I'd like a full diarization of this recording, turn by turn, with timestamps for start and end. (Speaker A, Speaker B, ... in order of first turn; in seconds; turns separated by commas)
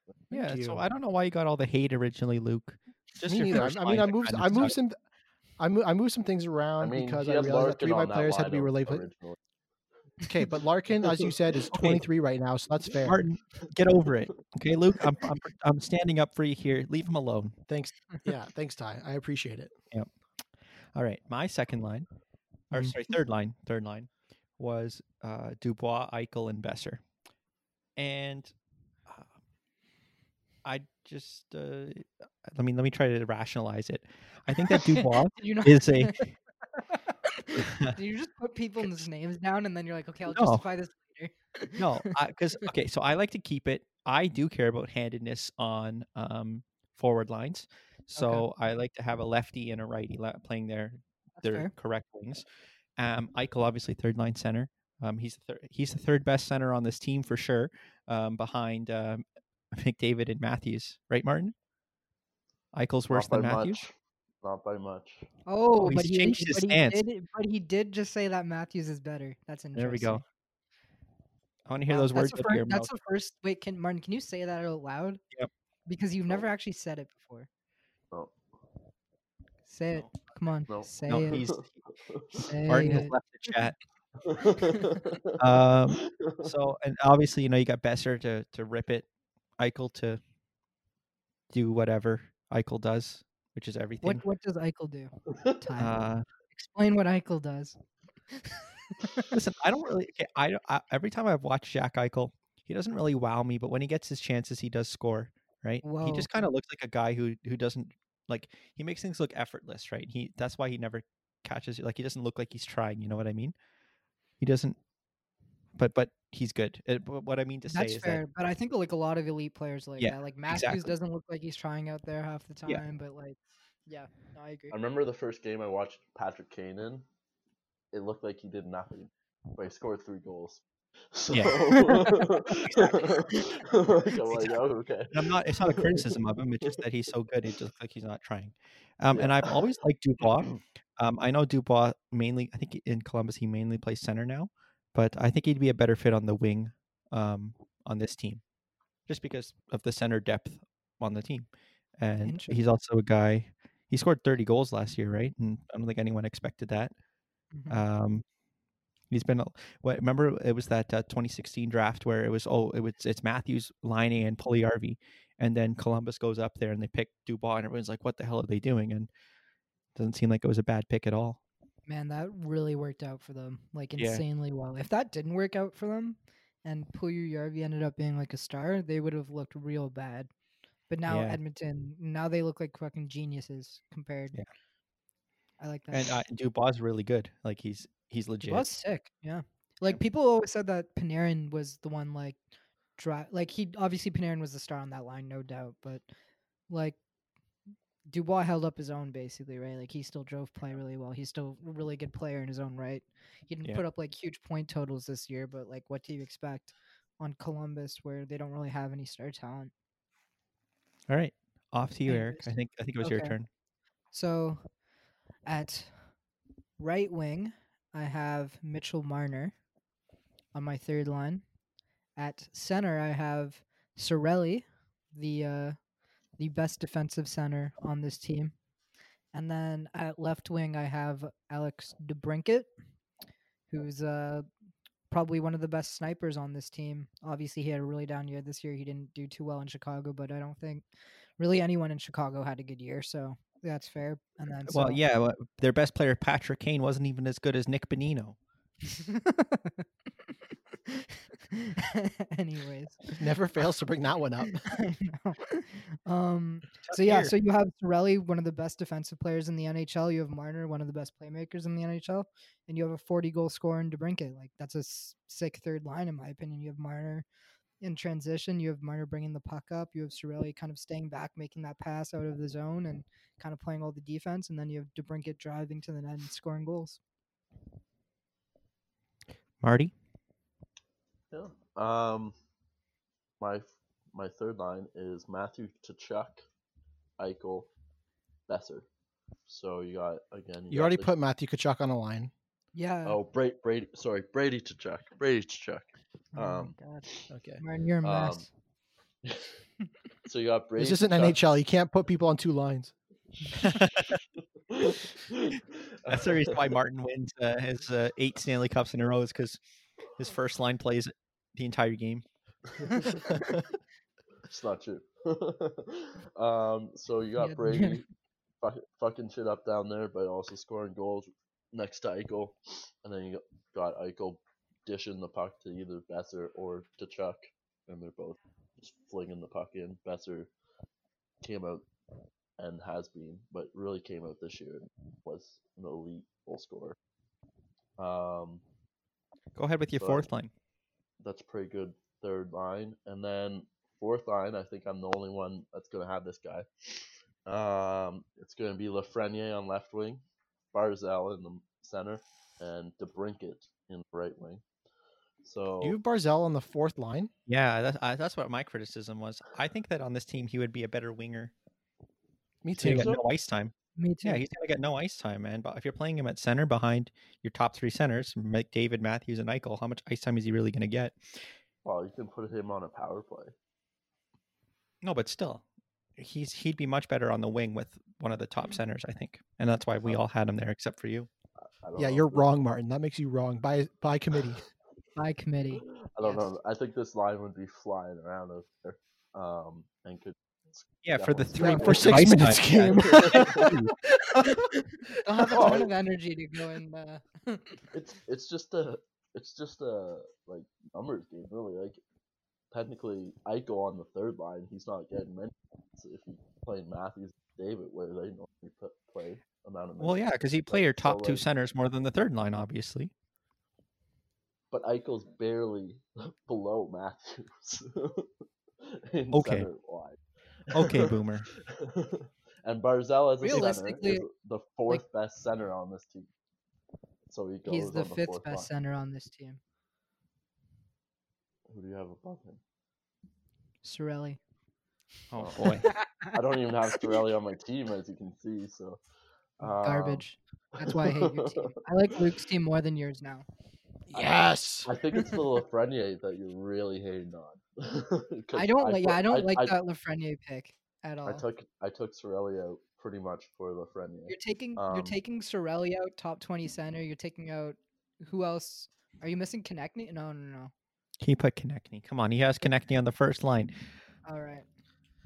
Speaker A: 0.3-0.8, Speaker B: 0.3-4.7, Speaker A: 3.2-5.0, Speaker A: 5.6-9.0, Speaker C: 6.8-9.4, Speaker A: 10.2-13.2, Speaker B: 11.7-12.0, Speaker B: 13.0-17.6, Speaker A: 17.7-19.7, Speaker B: 20.9-22.1, Speaker B: 22.7-27.0, Speaker B: 28.0-28.5, Speaker B: 30.6-36.2, Speaker D: 34.6-42.1, Speaker B: 37.5-38.0, Speaker B: 40.3-40.6, Speaker B: 41.8-52.4, Speaker D: 48.1-48.5, Speaker D: 51.4-51.7, Speaker B: 53.0-61.5, Speaker B: 62.7-63.8, Speaker C: 63.1-65.2, Speaker D: 65.5-70.2, Speaker B: 65.8-67.0, Speaker B: 69.7-70.2, Speaker B: 71.7-72.9, Speaker D: 71.9-75.2, Speaker D: 75.9-77.5, Speaker C: 78.1-78.3, Speaker D: 79.7-81.4, Speaker C: 80.7-82.4, Speaker B: 81.0-81.8, Speaker D: 82.4-83.1, Speaker B: 82.7-83.8, Speaker C: 84.2-85.3, Speaker D: 84.6-85.0, Speaker B: 85.4-89.0, Speaker C: 86.0-86.5, Speaker B: 89.6-90.2, Speaker B: 91.5-94.2, Speaker D: 94.0-96.0, Speaker B: 95.8-96.2, Speaker D: 96.5-97.8, Speaker D: 98.3-99.3, Speaker B: 99.3-113.5, Speaker D: 105.8-106.3, Speaker B: 114.4-114.8, Speaker B: 115.8-118.2, Speaker D: 117.7-123.3, Speaker B: 120.0-120.9, Speaker D: 123.9-124.8, Speaker C: 124.7-127.0, Speaker C: 127.9-136.8, Speaker B: 131.3-133.2, Speaker B: 134.3-134.6, Speaker B: 135.1-148.4, Speaker C: 139.1-139.6, Speaker B: 149.1-151.5, Speaker B: 152.0-156.9, Speaker D: 152.2-152.6, Speaker D: 157.5-157.8, Speaker B: 157.7-158.2, Speaker B: 159.1-169.1, Speaker B: 169.9-171.4, Speaker D: 171.9-180.3, Speaker D: 180.9-184.3, Speaker B: 181.1-181.4, Speaker D: 185.6-186.1, Speaker B: 185.9-188.7, Speaker D: 188.4-192.4, Speaker D: 193.0-196.0, Speaker D: 196.7-197.0, Speaker D: 198.1-209.7, Speaker B: 211.1-213.5, Speaker D: 212.1-213.3, Speaker D: 214.1-214.7, Speaker D: 215.4-216.1, Speaker D: 216.8-219.5, Speaker D: 220.5-221.4, Speaker D: 222.2-225.8, Speaker D: 226.4-228.5, Speaker D: 229.3-232.7, Speaker D: 233.7-234.4, Speaker D: 235.1-240.8, Speaker D: 241.4-245.0, Speaker B: 244.7-248.4, Speaker D: 248.9-249.8, Speaker D: 250.8-253.2, Speaker A: 253.2-254.7, Speaker D: 254.6-267.2, Speaker B: 256.8-257.3, Speaker D: 267.8-277.0, Speaker B: 279.6-279.9, Speaker C: 281.3-282.3, Speaker C: 283.4-286.4, Speaker C: 287.2-287.7, Speaker C: 288.5-288.9, Speaker C: 289.5-291.1, Speaker A: 290.7-292.3, Speaker D: 292.7-293.2, Speaker C: 293.1-297.2, Speaker D: 296.3-297.0, Speaker A: 297.3-297.6, Speaker D: 297.6-298.5, Speaker C: 298.0-298.4, Speaker C: 300.2-301.4, Speaker A: 300.8-302.9, Speaker B: 303.6-304.2, Speaker C: 304.7-306.7, Speaker B: 306.1-309.6, Speaker B: 310.1-312.2, Speaker B: 312.8-313.6, Speaker C: 314.5-318.0, Speaker D: 317.4-318.0, Speaker C: 318.6-330.5, Speaker C: 331.4-331.8, Speaker C: 332.6-336.9, Speaker C: 338.0-338.6, Speaker B: 339.6-340.5, Speaker C: 340.0-340.3, Speaker C: 341.2-346.7, Speaker C: 347.4-350.2, Speaker C: 350.7-354.6, Speaker C: 355.4-356.0, Speaker A: 355.8-357.3, Speaker B: 357.5-361.5, Speaker A: 362.6-363.1, Speaker B: 362.8-363.7, Speaker C: 362.8-363.2, Speaker D: 364.0-364.4, Speaker B: 364.2-371.4, Speaker C: 371.8-373.5, Speaker B: 375.0-375.6, Speaker B: 376.2-381.3, Speaker C: 381.6-382.5, Speaker A: 381.9-384.6, Speaker D: 385.1-386.4, Speaker C: 386.0-393.7, Speaker B: 391.0-393.9, Speaker A: 391.6-393.8, Speaker D: 395.2-397.8, Speaker A: 395.3-395.8, Speaker C: 395.5-395.9, Speaker C: 397.9-402.0, Speaker C: 402.7-411.4, Speaker B: 410.0-413.1, Speaker C: 414.7-418.3, Speaker C: 418.9-426.3, Speaker B: 419.3-419.7, Speaker B: 420.7-421.5, Speaker D: 423.4-424.2, Speaker C: 427.3-428.7, Speaker D: 427.6-429.6, Speaker C: 431.7-432.6, Speaker D: 433.8-434.4, Speaker B: 435.3-435.9, Speaker C: 435.4-435.8, Speaker D: 435.6-436.4, Speaker C: 436.3-439.0, Speaker C: 439.6-440.2, Speaker D: 439.6-443.4, Speaker C: 440.8-441.8, Speaker A: 444.1-444.9, Speaker C: 444.8-449.8, Speaker D: 448.5-451.4, Speaker C: 451.2-455.2, Speaker D: 454.3-460.7, Speaker B: 461.2-463.7, Speaker D: 464.2-464.6